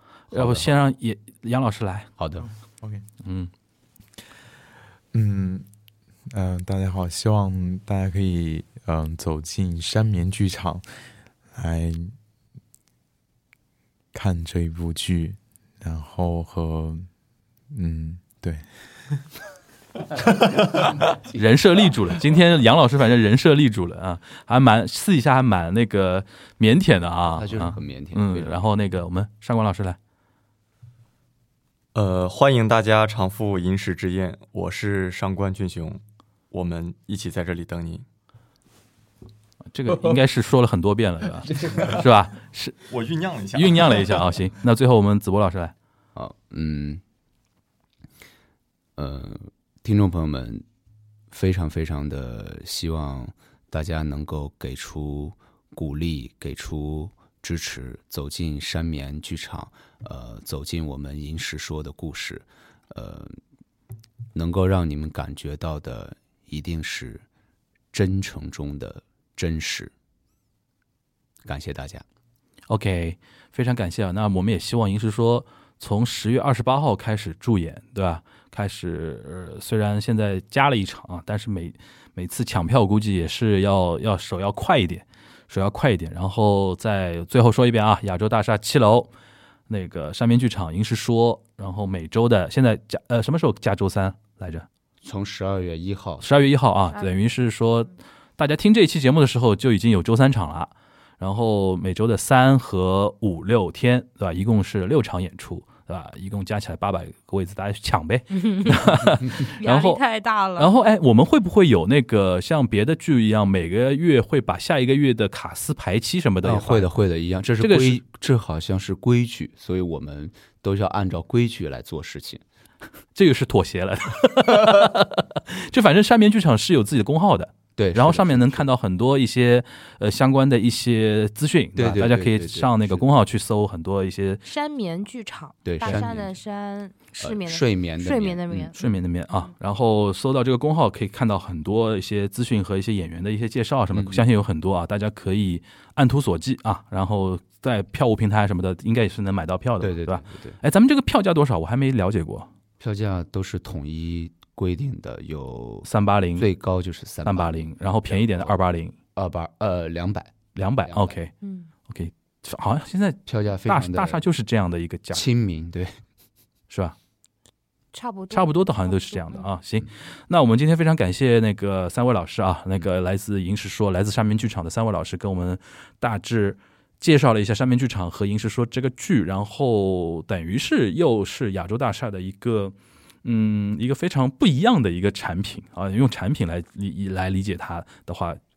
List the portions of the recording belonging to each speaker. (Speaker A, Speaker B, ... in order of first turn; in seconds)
Speaker A: 0.3-2.1, 3.2-3.5, 21.2-30.0, 39.7-42.8, 43.5-45.7, 72.7-89.1, 89.7-94.7, 96.2-110.0, 110.6-116.9, 117.6-118.0, 123.2-134.4, 138.8-152.5, 155.9-156.5, 157.2-158.9, 160.6-161.3, 161.9-165.2, 166.7-167.0, 168.3-188.4
Speaker B: 0.3-0.7, 2.2-2.5, 27.3-28.6, 46.1-47.0, 49.0-50.6, 51.3-63.4, 64.3-67.2, 67.9-69.9, 71.5-72.0, 95.0-96.2, 116.4-122.4, 127.8-128.7, 131.8-133.0, 135.7-136.3, 137.2-138.7, 143.9-144.2, 149.8-150.6, 152.8-158.6, 159.2-161.2, 163.3-164.2, 165.1-165.9
Speaker C: 5.1-5.7, 6.3-10.8, 11.5-12.1, 14.1-17.1, 17.7-18.6
Speaker D: 31.9-38.0, 42.9-44.1
Speaker E: 96.9-97.3, 108.3-110.7, 134.5-138.8, 161.4-161.7, 167.9-169.5